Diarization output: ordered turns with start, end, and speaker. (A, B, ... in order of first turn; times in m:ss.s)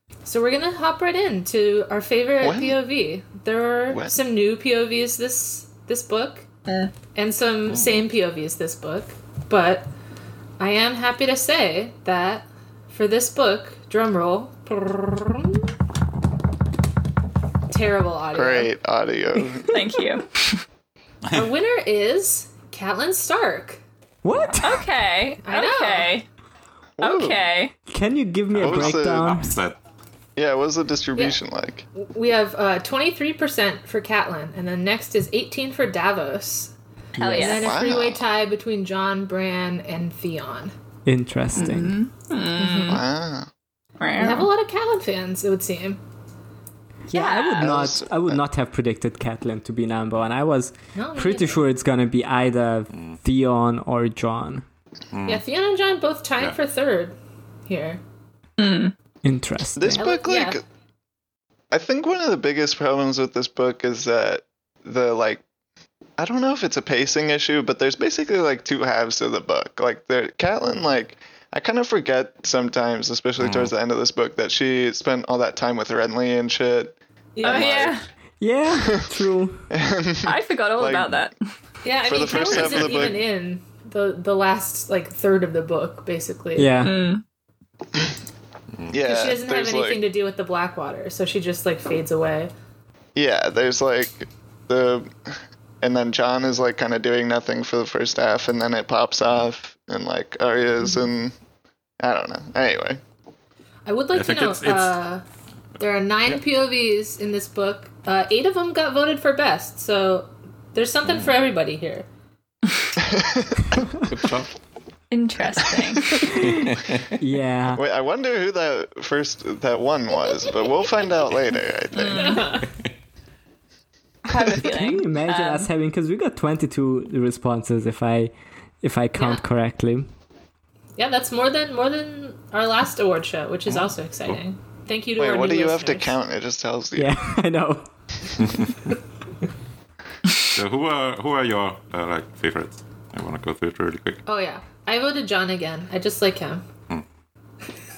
0:00.2-0:06.4 A
0:02.4-0:02.8 B
0:03.9-0:04.2 B
0:06.7-0:06.9 C
0:07.1-0:09.9 A
0:07.7-0:08.0 D
0:10.6-0:15.7 A
0:17.7-0:18.7 A
0:18.3-0:19.8 B
0:19.7-0:20.3 C
0:21.3-0:23.8 A
0:24.2-0:24.8 E
0:24.6-0:26.2 C
0:25.4-0:26.1 A
0:27.0-0:27.4 B
0:27.0-0:27.7 C
0:27.9-0:29.6 E
0:28.5-0:29.8 D
0:28.6-0:29.4 B
0:30.4-0:31.8 B
0:32.0-0:40.7 A
0:37.2-0:37.7 C
0:37.3-0:38.2 B
0:41.0-0:42.0 E
0:41.5-0:41.8 D
0:41.6-0:43.0 C
0:42.6-0:43.0 A
0:42.9-0:43.5 B
0:44.0-0:44.5 C
0:44.2-0:46.0 A
0:47.1-0:54.6 E
0:47.1-0:47.7 C
0:47.6-0:48.4 B
0:50.9-0:51.6 A
0:52.9-0:53.2 D
0:55.1-0:55.4 D
0:55.3-0:57.1 A
0:57.7-0:58.0 A
0:58.6-0:58.9 C
0:59.2-1:00.1 E
0:59.8-1:00.6 B
0:59.9-1:00.6 A
1:01.7-1:05.4 B
1:06.2-1:17.9 B
1:13.4-1:13.7 D
1:17.4-1:17.8 A
1:17.4-1:18.0 C
1:18.4-1:19.7 E
1:19.7-1:21.2 B
1:20.2-1:21.4 C
1:21.8-1:26.8 A
1:22.0-1:23.2 B
1:22.5-1:23.1 D
1:26.6-1:26.9 E
1:26.8-1:27.2 C
1:28.9-1:30.0 B
1:29.0-1:32.5 A
1:33.2-1:41.3 B
1:42.0-1:43.0 B
1:43.8-1:45.2 A
1:44.1-1:45.0 D
1:45.8-1:52.0 A
1:53.0-1:53.6 B
1:53.9-1:54.5 D
1:55.1-1:56.3 C
1:56.2-1:57.2 D
1:56.3-1:56.7 E
1:57.2-1:57.8 E
1:57.7-2:02.6 B
2:01.9-2:02.4 C
2:02.2-2:02.7 A
2:02.6-2:02.9 D
2:04.2-2:05.7 C
2:04.5-2:10.1 E
2:09.2-2:09.4 A
2:11.0-2:16.1 A
2:15.2-2:17.2 B
2:17.0-2:17.9 E
2:18.4-2:18.9 D
2:20.5-2:24.2 D
2:24.2-2:26.6 A